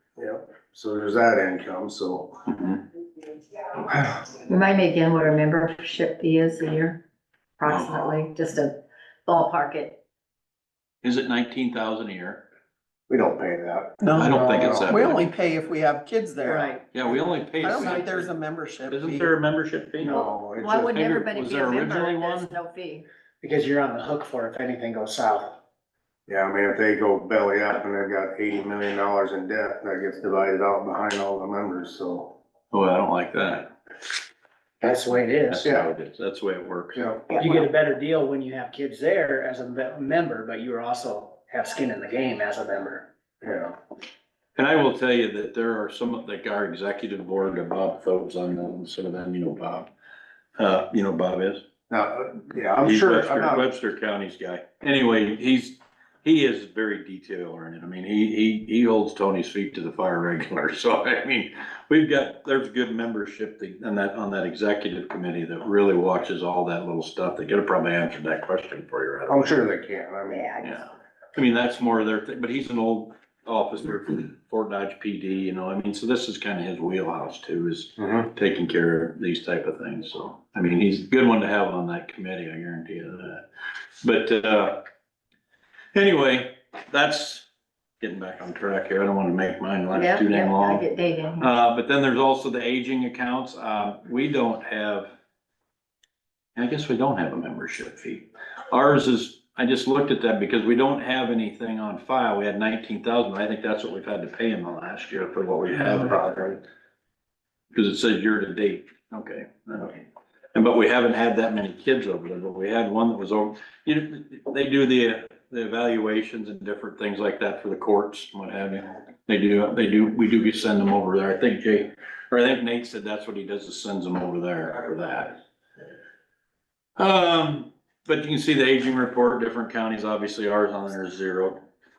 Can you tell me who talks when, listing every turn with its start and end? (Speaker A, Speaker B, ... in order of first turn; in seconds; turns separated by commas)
Speaker A: 0.2-2.4, Speaker B: 2.5-2.8, Speaker A: 3.9-4.2, Speaker C: 4.5-7.0, Speaker C: 7.6-10.0, Speaker B: 7.6-8.2, Speaker B: 11.0-12.4, Speaker A: 13.1-15.0, Speaker D: 14.0-16.8, Speaker B: 14.1-15.2, Speaker C: 16.4-16.7, Speaker B: 16.9-18.3, Speaker D: 17.6-19.3, Speaker B: 18.9-20.3, Speaker A: 20.0-21.0, Speaker C: 20.1-23.1, Speaker B: 20.9-22.5, Speaker E: 23.4-25.6, Speaker A: 26.3-32.3, Speaker B: 32.7-33.7, Speaker E: 34.8-35.6, Speaker B: 35.5-37.0, Speaker A: 35.6-35.9, Speaker A: 36.9-37.4, Speaker E: 37.3-43.1, Speaker A: 43.4-43.7, Speaker B: 44.5-49.9, Speaker B: 50.6-51.6, Speaker A: 51.9-53.7, Speaker B: 52.8-69.6, Speaker A: 69.3-70.5, Speaker C: 70.3-70.8, Speaker B: 70.6-83.4, Speaker A: 78.0-78.3, Speaker B: 84.0-84.8, Speaker B: 85.9-87.5, Speaker B: 88.0-90.8, Speaker C: 89.9-91.5, Speaker B: 91.4-95.1, Speaker B: 96.5-106.6, Speaker B: 107.7-125.3, Speaker B: 127.0-131.6